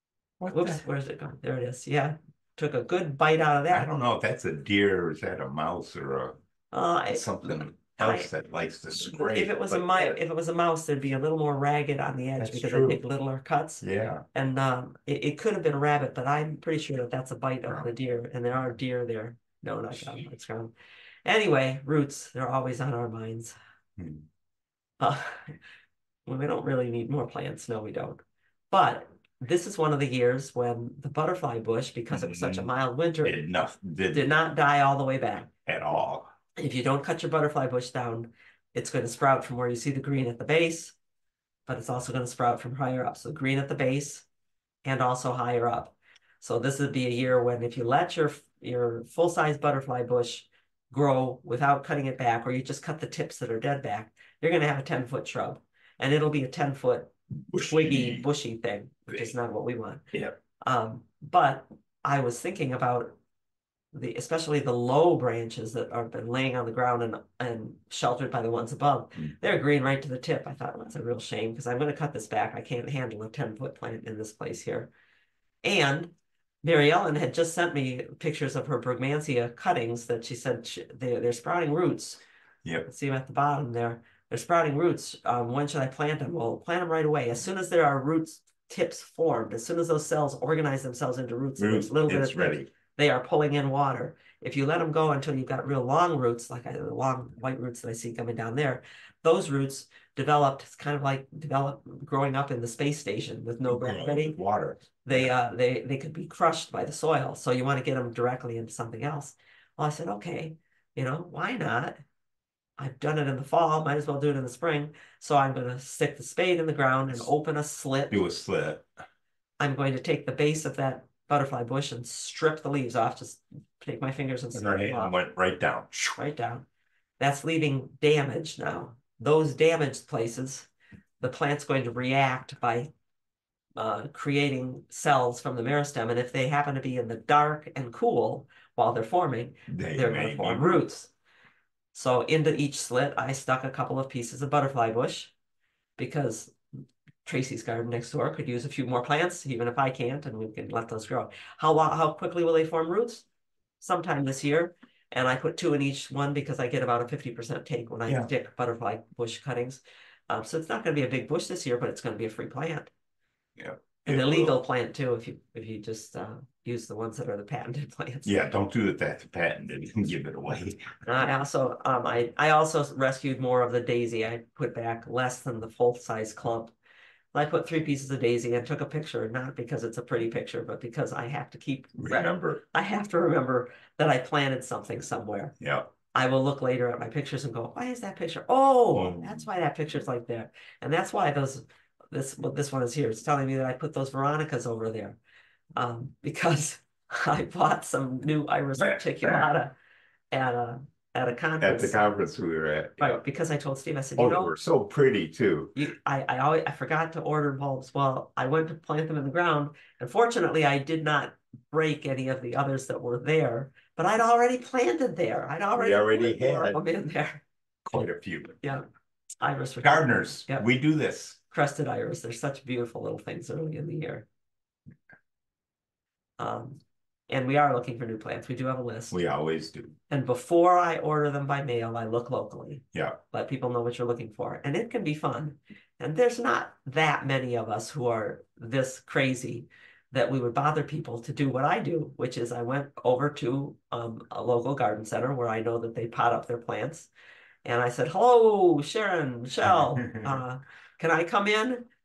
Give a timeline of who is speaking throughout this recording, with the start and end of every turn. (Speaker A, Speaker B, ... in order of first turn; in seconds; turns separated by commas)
Speaker A: 0.4-0.8, Speaker B: 0.5-3.9, Speaker A: 3.7-6.4, Speaker B: 6.7-8.3, Speaker A: 7.1-10.2, Speaker B: 9.3-20.7, Speaker A: 12.4-13.0, Speaker A: 13.8-14.2, Speaker B: 21.2-23.5, Speaker A: 24.0-24.2, Speaker B: 25.0-25.5, Speaker B: 26.2-33.4, Speaker A: 32.1-32.7, Speaker A: 33.2-34.3, Speaker B: 34.1-35.5, Speaker A: 35.6-36.3, Speaker B: 36.6-40.9, Speaker B: 41.7-44.2, Speaker B: 44.8-60.1, Speaker A: 57.5-58.3, Speaker A: 59.1-59.3, Speaker B: 60.6-63.2, Speaker B: 63.9-74.9, Speaker B: 75.6-76.1, Speaker B: 76.6-82.2, Speaker B: 82.8-104.3, Speaker A: 91.6-92.7, Speaker A: 103.7-105.3, Speaker B: 105.1-112.0, Speaker B: 112.8-118.2, Speaker A: 118.1-118.9, Speaker B: 119.6-125.1, Speaker A: 124.5-126.2, Speaker B: 126.2-126.7, Speaker B: 127.2-130.7, Speaker B: 131.2-132.9, Speaker B: 133.8-141.1, Speaker A: 139.7-140.8, Speaker B: 141.9-145.3, Speaker B: 146.0-146.5, Speaker B: 147.2-153.2, Speaker B: 153.8-162.9, Speaker A: 163.6-164.6, Speaker B: 164.0-168.3, Speaker A: 168.2-171.2, Speaker B: 171.0-176.7, Speaker B: 177.3-185.5, Speaker A: 182.0-182.6, Speaker A: 185.6-185.9, Speaker B: 186.1-195.2, Speaker A: 188.9-189.4, Speaker B: 195.8-199.7, Speaker A: 198.8-199.4, Speaker B: 200.3-202.0, Speaker A: 201.6-203.2, Speaker B: 203.0-204.5, Speaker A: 204.2-205.8, Speaker B: 205.8-217.4, Speaker A: 215.8-216.8, Speaker A: 217.8-218.6, Speaker B: 219.4-220.7, Speaker A: 219.8-221.4, Speaker B: 221.5-224.3, Speaker B: 226.4-229.2, Speaker A: 229.1-230.0, Speaker B: 230.1-247.1, Speaker A: 232.9-233.2, Speaker B: 247.6-251.9, Speaker A: 249.9-250.4